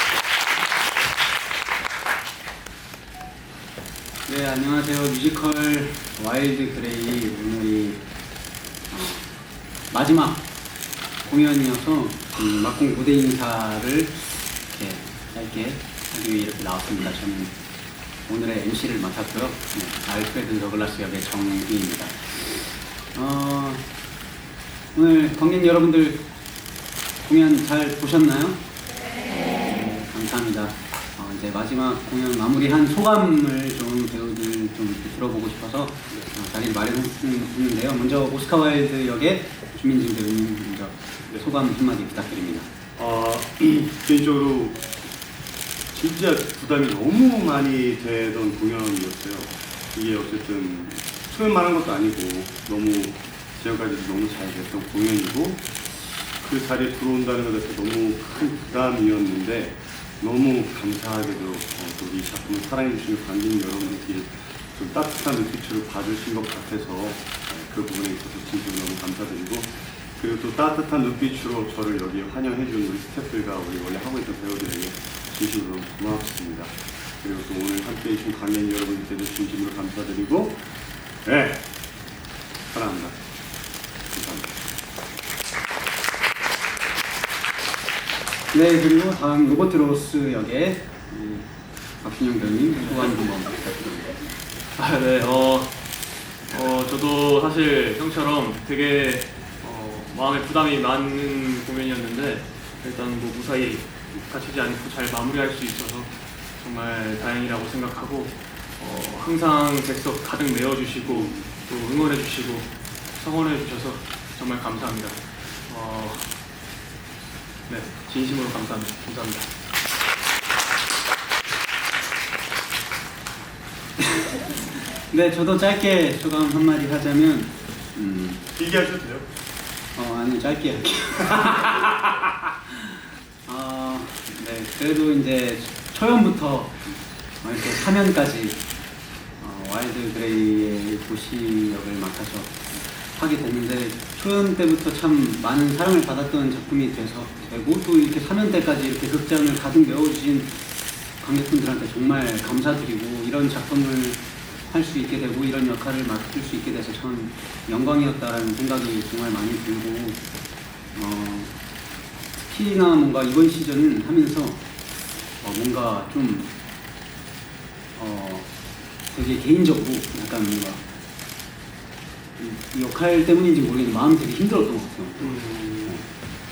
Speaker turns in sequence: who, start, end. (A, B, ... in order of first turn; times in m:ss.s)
0:04.2-0:08.0 A
0:08.9-0:09.3 A
0:09.9-0:10.4 A
0:11.2-0:17.6 A
0:18.3-0:23.8 A
0:24.9-0:26.2 A
0:27.2-0:28.6 A
0:29.4-0:42.7 A
0:43.0-0:44.9 B
0:45.9-0:55.7 B
0:56.4-1:20.7 B
1:21.2-1:21.6 B
1:22.7-1:23.2 B
1:24.1-1:24.5 B
1:28.5-1:31.5 A
1:32.0-1:34.2 A
1:32.6-1:33.1 C
1:34.8-1:35.8 C
1:36.5-1:56.4 C
1:57.7-1:59.5 C
2:04.0-2:08.5 A
2:08.6-2:09.2 B
2:10.0-2:12.0 A
2:12.7-2:16.8 A
2:17.4-2:18.6 A
2:19.4-2:40.2 A
2:40.9-2:41.6 A
2:42.4-2:44.6 A
2:45.4-2:46.5 A
2:48.0-2:48.5 A
2:49.1-2:50.8 A
2:52.4-2:56.0 A
2:55.2-2:56.0 B